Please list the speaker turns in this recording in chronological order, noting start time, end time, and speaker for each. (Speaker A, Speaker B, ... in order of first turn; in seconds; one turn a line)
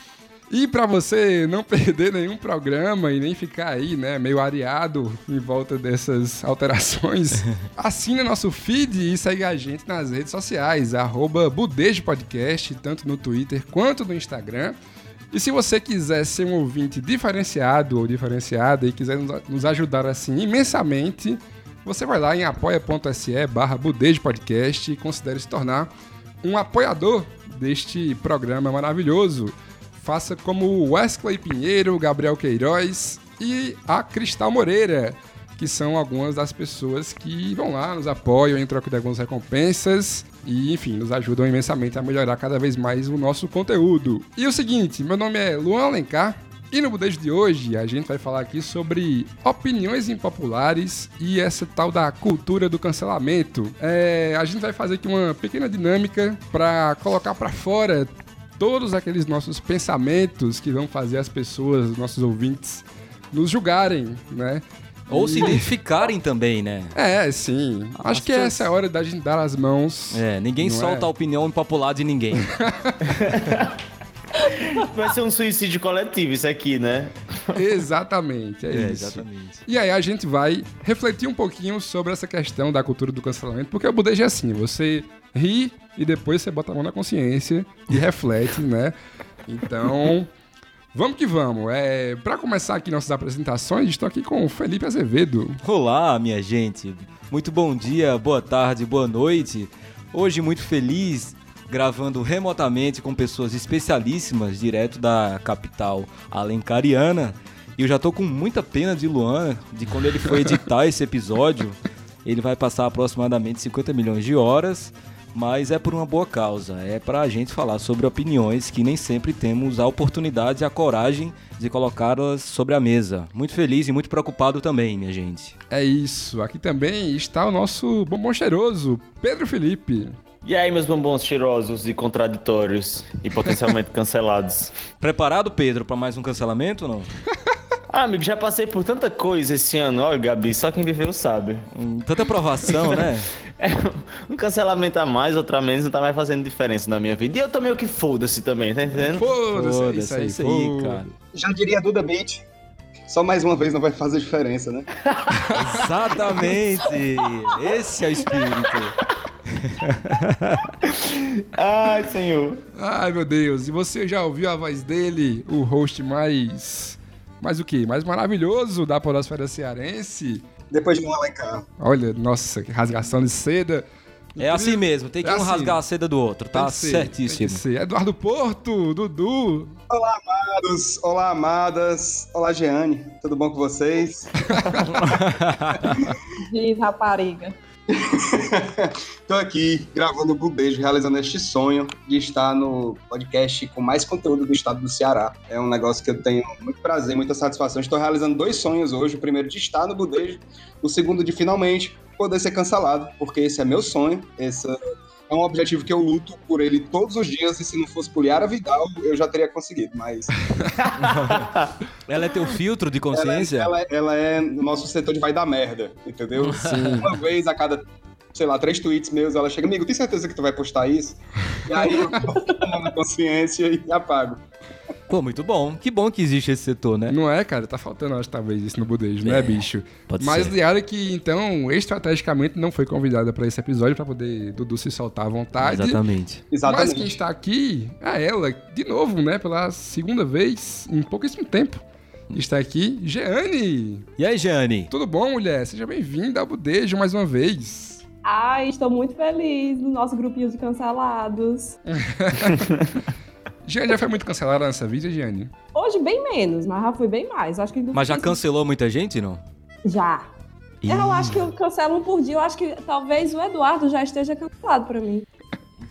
Speaker A: 0.5-14.8
Speaker A: 15.3-25.9
Speaker A: 26.4-65.7
Speaker B: 65.1-66.9
Speaker A: 66.9-71.1
Speaker B: 68.0-68.7
Speaker B: 70.1-72.5
Speaker A: 72.4-73.1
Speaker C: 73.2-73.7
Speaker C: 74.5-77.6
Speaker A: 77.5-88.9
Speaker B: 78.7-79.6
Speaker A: 89.5-90.3
Speaker A: 90.9-95.6
Speaker B: 95.6-125.5
Speaker A: 125.7-130.2
Speaker C: 130.4-134.7
Speaker B: 135.0-137.1
Speaker C: 137.9-141.7
Speaker B: 141.7-143.3
Speaker C: 143.6-149.2
Speaker A: 149.1-151.0
Speaker B: 149.4-151.1
Speaker D: 151.3-152.4
Speaker D: 153.1-154.9
Speaker C: 155.0-155.4
Speaker A: 155.5-156.6
Speaker B: 155.5-159.0
Speaker B: 159.5-160.7
Speaker C: 160.8-162.6
Speaker A: 162.8-170.5
Speaker D: 170.7-171.7
Speaker A: 171.8-175.8
Speaker B: 174.4-177.6
Speaker A: 176.5-179.8
Speaker D: 179.9-185.0
Speaker A: 184.5-184.8
Speaker B: 184.9-186.1
Speaker E: 186.4-187.6
Speaker D: 187.9-204.8
Speaker D: 205.3-210.3
Speaker B: 211.0-211.5
Speaker C: 211.0-211.7
Speaker B: 212.1-213.7
Speaker D: 213.1-224.4
Speaker B: 216.4-217.1
Speaker A: 216.6-217.1
Speaker B: 225.1-227.2
Speaker A: 227.1-236.0
Speaker B: 229.2-230.6
Speaker B: 235.6-236.4
Speaker D: 236.5-237.2
Speaker A: 236.6-241.8
Speaker A: 242.3-244.1
Speaker B: 244.2-244.9
Speaker A: 244.9-248.0
Speaker E: 248.2-251.8
Speaker A: 251.9-252.8
Speaker A: 253.6-255.5
Speaker E: 255.7-258.4
Speaker B: 257.9-259.4
Speaker E: 259.9-260.3
Speaker B: 260.8-261.5
Speaker E: 260.9-265.2